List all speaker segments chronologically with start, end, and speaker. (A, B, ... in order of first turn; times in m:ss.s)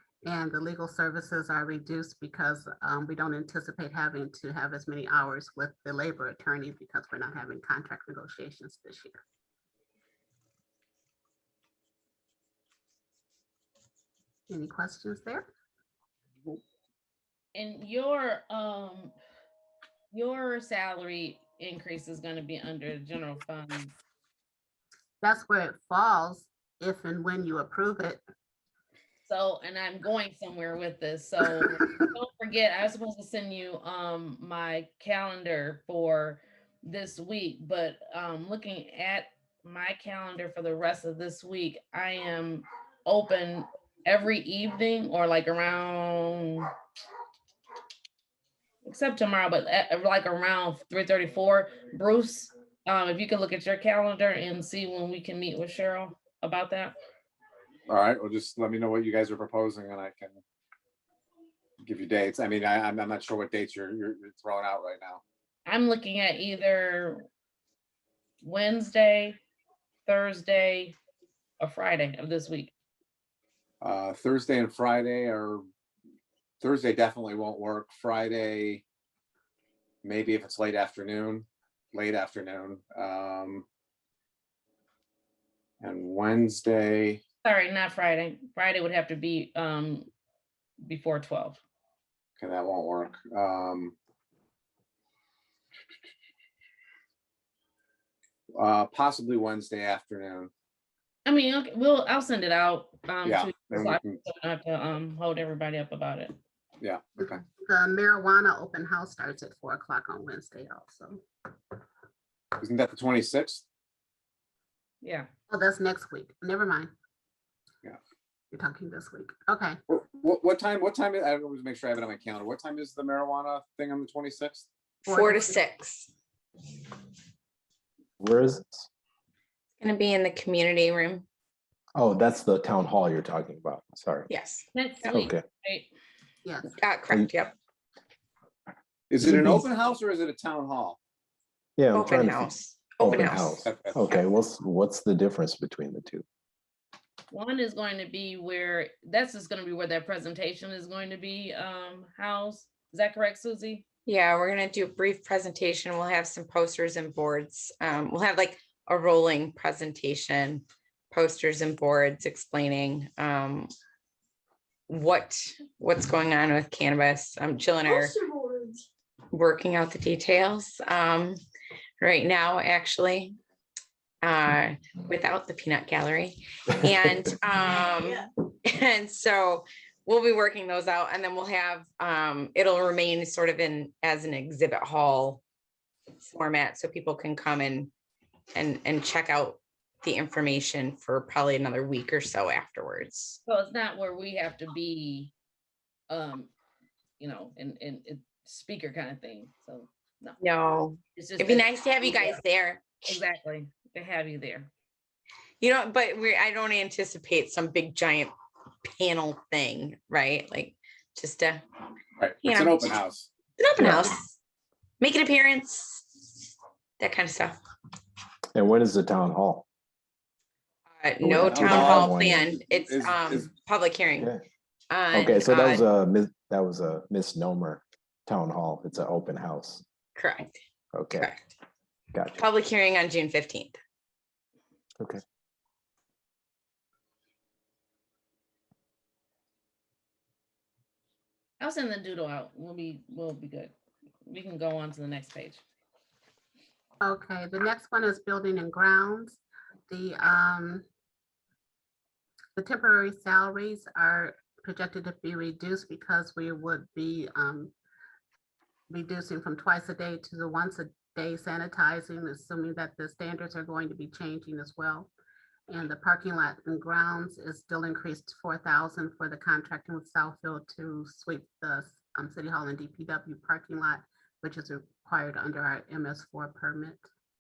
0:00.2-0:09.2 A
0:14.5-0:15.5 A
0:17.6-0:19.2 B
0:20.1-0:23.9 B
0:25.2-0:28.2 A
0:29.2-0:46.7 B
0:48.8-0:57.0 B
0:57.9-1:00.4 C
1:01.8-1:05.2 C
1:05.7-1:07.3 B
1:08.4-1:09.4 B
1:10.1-1:11.0 B
1:11.6-1:12.7 B
1:13.8-1:15.6 C
1:16.6-1:18.8 C
1:20.0-1:23.7 C
1:25.8-1:27.2 C
1:27.4-1:30.1 B
1:30.8-1:31.6 B
1:32.4-1:34.0 C
1:38.5-1:40.5 C
1:41.2-1:46.4 B
1:43.2-1:44.2 C
1:46.8-1:47.4 C
1:47.2-1:51.2 A
1:52.6-1:53.6 C
1:55.0-1:55.3 B
1:55.5-1:56.9 A
1:58.5-1:59.8 A
1:59.9-2:04.7 C
2:05.1-2:05.6 A
2:05.1-2:06.1 D
2:08.2-2:08.9 E
2:09.8-2:11.3 D
2:12.0-2:14.3 E
2:14.3-2:15.2 D
2:14.7-2:15.9 B
2:15.1-2:15.4 E
2:16.4-2:16.8 A
2:16.8-2:17.6 D
2:19.1-2:21.0 C
2:19.2-2:19.6 E
2:21.8-2:26.2 E
2:21.9-2:23.6 D
2:23.1-2:24.1 C
2:27.3-2:33.9 B
2:34.1-2:43.7 D
2:44.9-2:48.2 D
2:49.3-2:51.4 D
2:52.0-2:53.4 D
2:54.2-3:05.4 D
3:06.2-3:07.9 D
3:08.5-3:13.4 D
3:13.5-3:15.3 B
3:16.1-3:16.5 B
3:17.2-3:20.4 B
3:20.4-3:23.2 D
3:21.2-3:22.4 B
3:23.1-3:24.7 B
3:25.6-3:28.3 D
3:28.8-3:31.6 D
3:32.2-3:33.3 C
3:32.4-3:33.0 D
3:33.6-3:34.4 D
3:33.8-3:34.1 E
3:35.0-3:36.5 D
3:37.0-3:37.6 D
3:38.6-3:39.6 E
3:40.9-3:44.3 D
3:41.2-3:42.5 E
3:41.4-3:43.5 C
3:44.9-3:45.8 D
3:45.1-3:49.8 E
3:50.2-3:50.6 D
3:50.9-3:51.3 E
3:51.1-3:51.5 D
3:52.1-3:52.4 E
3:52.4-3:53.8 D
4:01.6-4:03.7 B
4:04.3-4:05.6 B
4:07.0-4:10.8 A
4:12.6-4:17.7 A
4:18.9-4:25.1 A
4:25.7-4:37.1 A